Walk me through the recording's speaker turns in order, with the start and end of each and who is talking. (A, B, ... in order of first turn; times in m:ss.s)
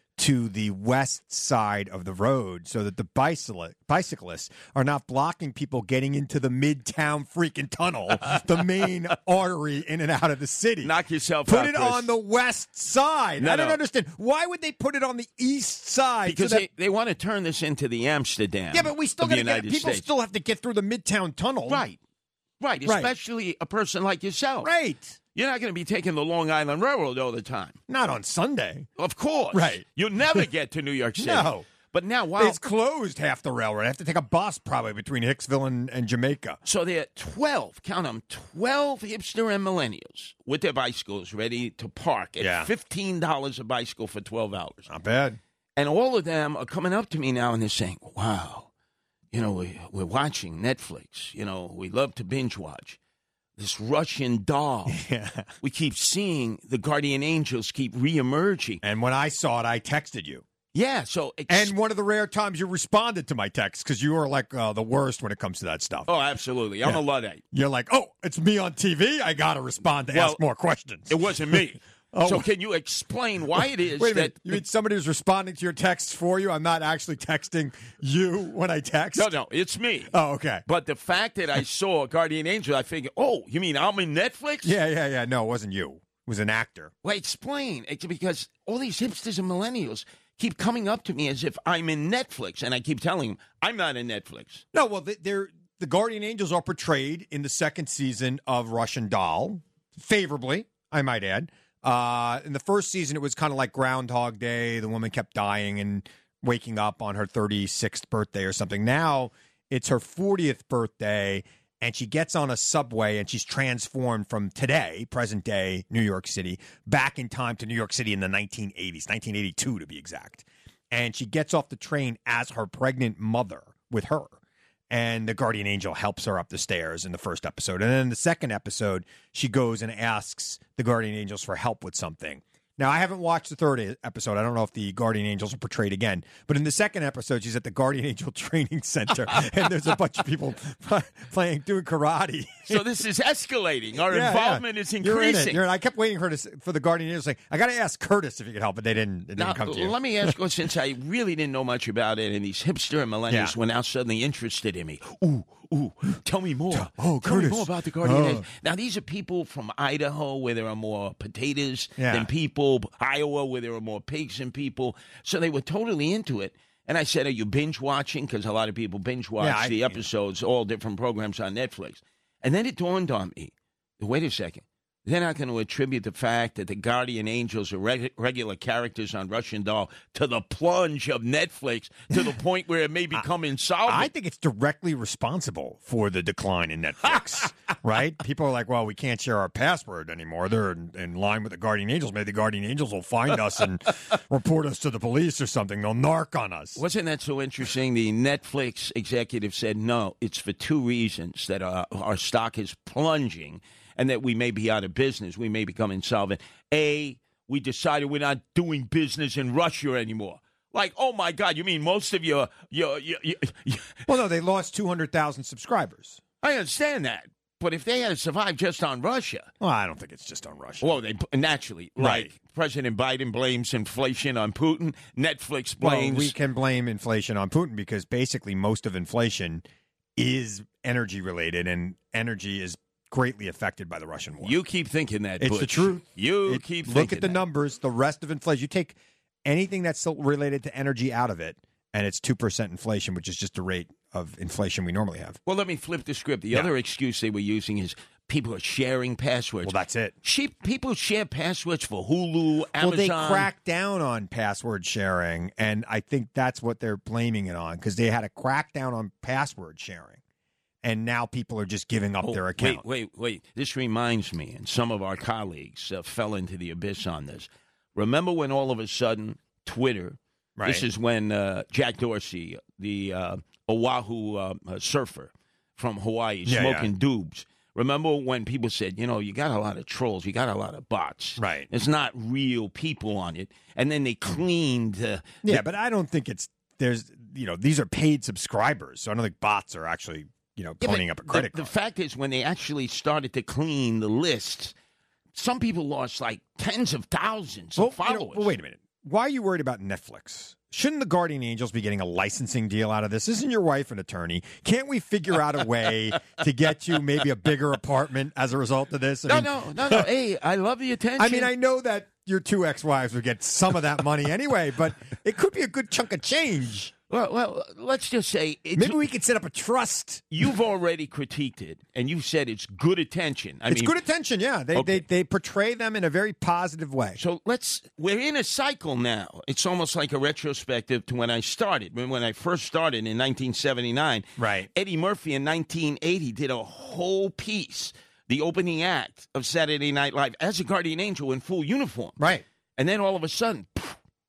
0:00.2-0:10.9 A
0:10.8-0:12.1 B
0:11.4-0:16.7 A
0:13.4-0:13.8 B
0:16.3-0:20.0 B
0:18.7-0:21.8 A
0:21.7-0:22.0 B
0:22.6-0:24.7 B
0:22.9-0:23.1 A
0:24.6-0:25.2 A
0:25.4-0:27.8 B
0:27.9-0:28.9 A
0:29.0-0:32.6 B
0:29.5-0:29.8 A
0:31.2-0:31.7 A
0:32.4-0:36.6 A
0:36.6-0:44.9 B
0:42.4-0:42.7 A
0:44.9-0:45.4 A
0:45.8-0:48.7 B
0:49.3-0:53.0 B
0:53.6-0:55.0 B
0:54.9-0:55.5 A
0:55.6-0:58.8 B
0:58.8-1:00.4 A
1:00.7-1:01.7 B
1:01.5-1:06.1 A
1:06.1-1:07.4 B
1:06.8-1:12.5 A
1:10.1-1:10.4 B
1:11.1-1:14.6 B
1:14.0-1:19.3 A
1:19.2-1:20.1 B
1:20.1-1:20.6 A
1:20.7-1:24.8 B
1:24.6-1:26.9 A
1:27.0-1:34.6 B
1:34.7-2:04.4 A
2:04.9-2:22.8 A
2:22.7-2:25.6 B
2:24.1-2:30.3 A
2:29.4-3:04.1 B
2:33.3-2:33.6 A
2:36.7-2:38.4 A
2:42.0-2:42.3 A
2:49.4-2:50.0 A
3:03.9-3:16.8 A
3:16.8-3:34.1 B
3:34.1-3:36.2 A
3:36.4-3:39.5 B
3:39.6-3:41.0 A
3:40.8-3:46.4 B
3:42.0-3:42.3 A
3:45.8-3:54.6 A
3:54.4-3:57.4 B
3:55.4-4:05.4 A
4:05.5-4:13.5 B
4:09.6-4:10.2 A
4:12.8-4:20.2 A
4:20.8-4:22.8 A
4:22.2-4:45.6 B
4:30.6-4:30.8 A
4:36.5-4:36.9 A
4:41.4-4:41.7 A
4:45.4-4:51.7 A
4:50.8-4:54.7 B
4:55.4-4:58.5 B
4:57.8-5:10.1 A
5:09.3-5:11.5 B
5:11.2-5:16.9 A
5:17.1-5:19.0 B
5:18.8-5:20.4 A
5:20.3-5:24.0 B
5:23.7-5:27.2 A
5:24.7-5:25.0 B
5:27.2-5:42.2 B
5:34.4-5:34.7 A
5:42.2-5:42.4 A
5:42.8-5:44.0 B